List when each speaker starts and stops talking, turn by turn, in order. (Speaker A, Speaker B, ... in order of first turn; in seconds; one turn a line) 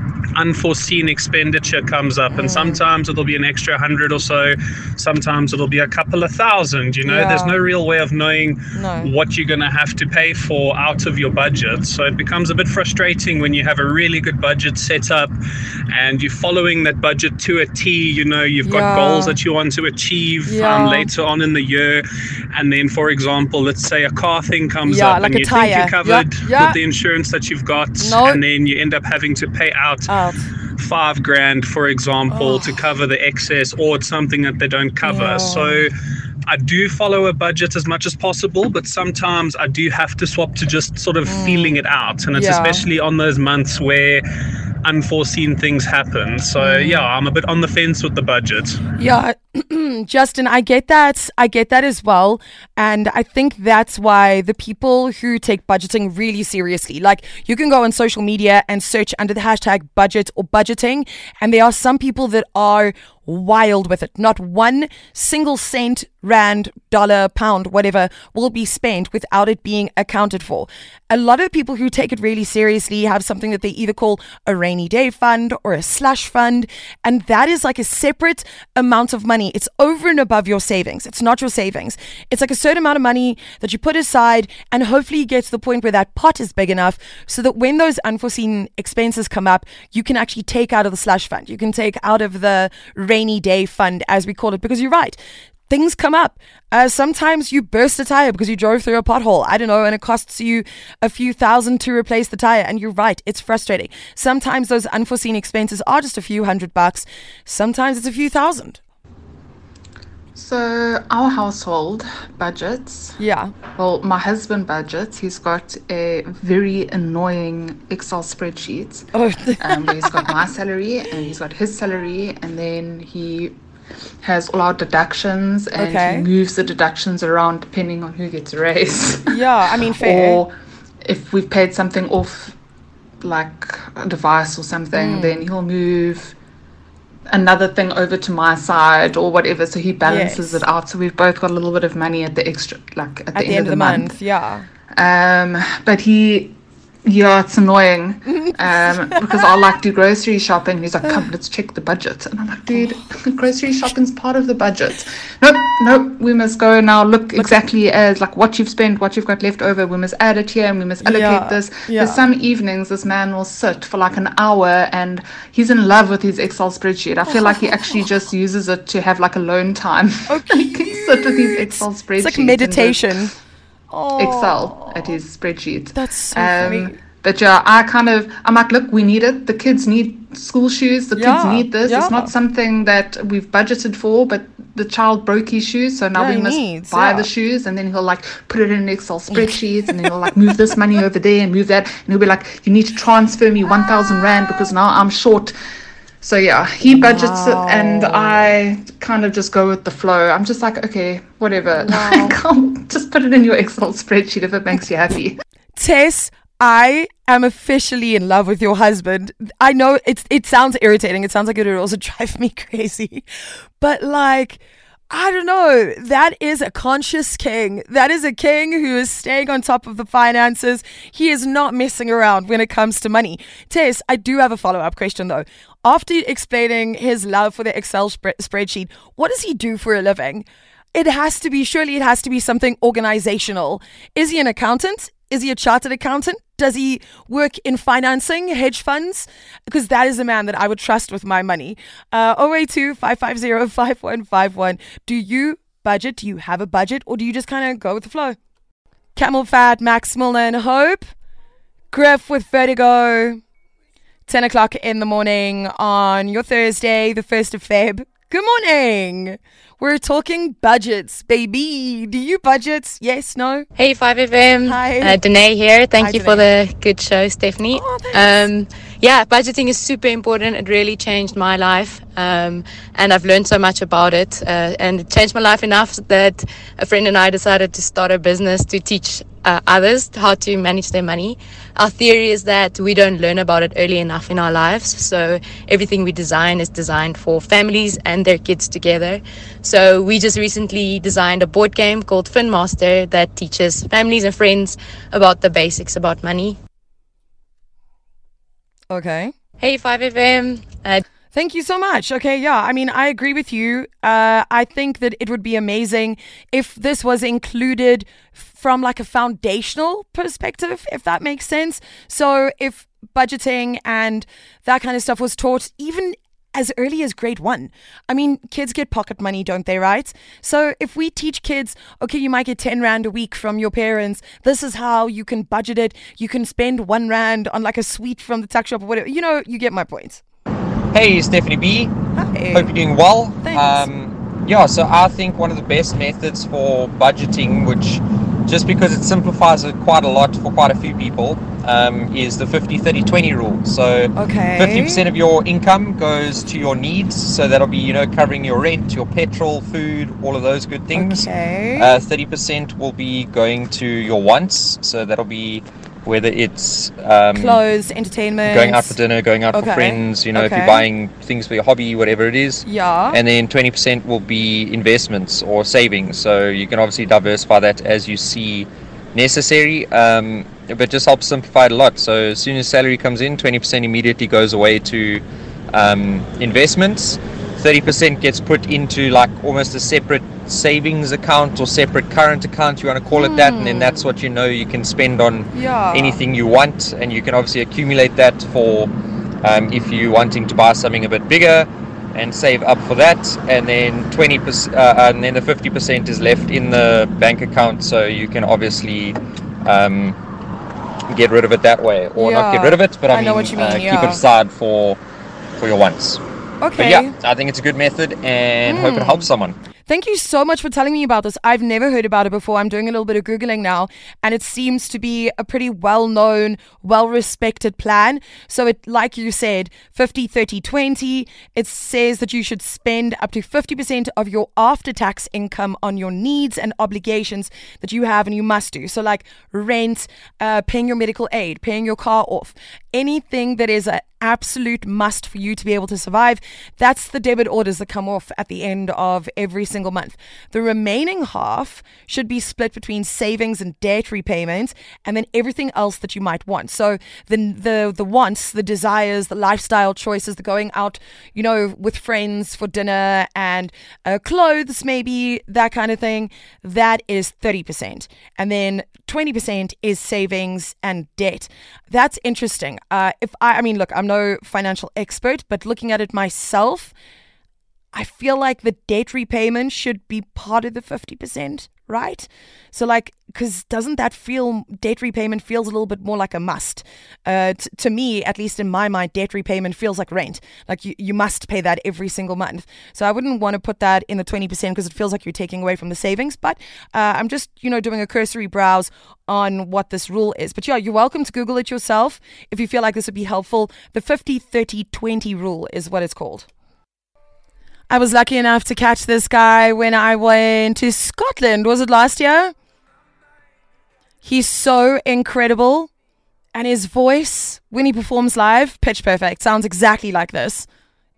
Speaker A: 0.3-15.3
Speaker B: 2.3-2.8
Speaker B: 7.0-7.6
Speaker B: 8.7-9.1
Speaker A: 15.9-30.1
Speaker B: 18.6-19.4
Speaker B: 20.4-21.1
Speaker B: 24.8-26.8
Speaker B: 28.0-28.4
Speaker B: 30.1-30.5
Speaker A: 30.8-35.9
Speaker B: 32.3-32.9
Speaker B: 35.0-35.8
Speaker A: 36.5-44.2
Speaker B: 41.2-41.8
Speaker B: 42.3-42.9
Speaker A: 44.8-48.8
Speaker B: 46.6-47.1
Speaker B: 49.0-95.2
Speaker B: 95.7-108.8
Speaker C: 110.3-113.1
Speaker B: 113.2-113.5
Speaker C: 113.8-119.1
Speaker B: 119.1-120.3
Speaker C: 119.6-123.6
Speaker C: 124.2-132.6
Speaker B: 125.8-126.3
Speaker B: 129.3-130.4
Speaker C: 133.2-136.3
Speaker B: 134.9-135.5
Speaker C: 137.3-144.2
Speaker B: 140.0-140.7
Speaker B: 143.3-144.7
Speaker C: 144.9-173.3
Speaker B: 148.2-149.6
Speaker B: 151.0-151.3
Speaker B: 152.7-153.0
Speaker B: 157.3-157.7
Speaker B: 161.0-162.3
Speaker B: 167.2-168.0
Speaker B: 170.3-173.3
Speaker B: 173.9-175.1
Speaker C: 174.2-195.5
Speaker B: 175.9-177.0
Speaker B: 181.1-182.3
Speaker B: 186.1-187.3
Speaker B: 189.3-190.3
Speaker C: 196.2-205.4
Speaker B: 196.8-198.4
Speaker B: 201.8-202.3
Speaker B: 205.8-213.2
Speaker B: 213.8-248.4
Speaker B: 249.1-251.1
Speaker B: 251.9-253.4
Speaker B: 254.3-263.7
Speaker D: 263.8-296.6
Speaker B: 264.6-265.2
Speaker B: 266.0-266.5
Speaker B: 267.7-268.3
Speaker B: 298.9-299.3
Speaker D: 299.6-301.0
Speaker B: 301.3-330.2
Speaker E: 330.9-331.9
Speaker B: 332.1-332.7
Speaker E: 332.5-357.6
Speaker B: 333.4-333.9
Speaker B: 344.1-345.1
Speaker B: 350.9-352.0
Speaker B: 357.3-359.0
Speaker E: 358.4-388.9
Speaker B: 359.5-360.9
Speaker B: 362.6-363.2
Speaker B: 383.1-384.1
Speaker B: 385.5-386.2
Speaker E: 389.4-400.2
Speaker E: 401.1-405.0
Speaker B: 402.1-404.2
Speaker E: 405.6-406.2
Speaker B: 406.6-407.1
Speaker E: 406.8-409.6
Speaker B: 408.6-409.3
Speaker B: 409.9-466.9
Speaker B: 467.9-496.5
Speaker B: 497.9-502.5
Speaker B: 504.2-505.9
Speaker B: 506.5-510.7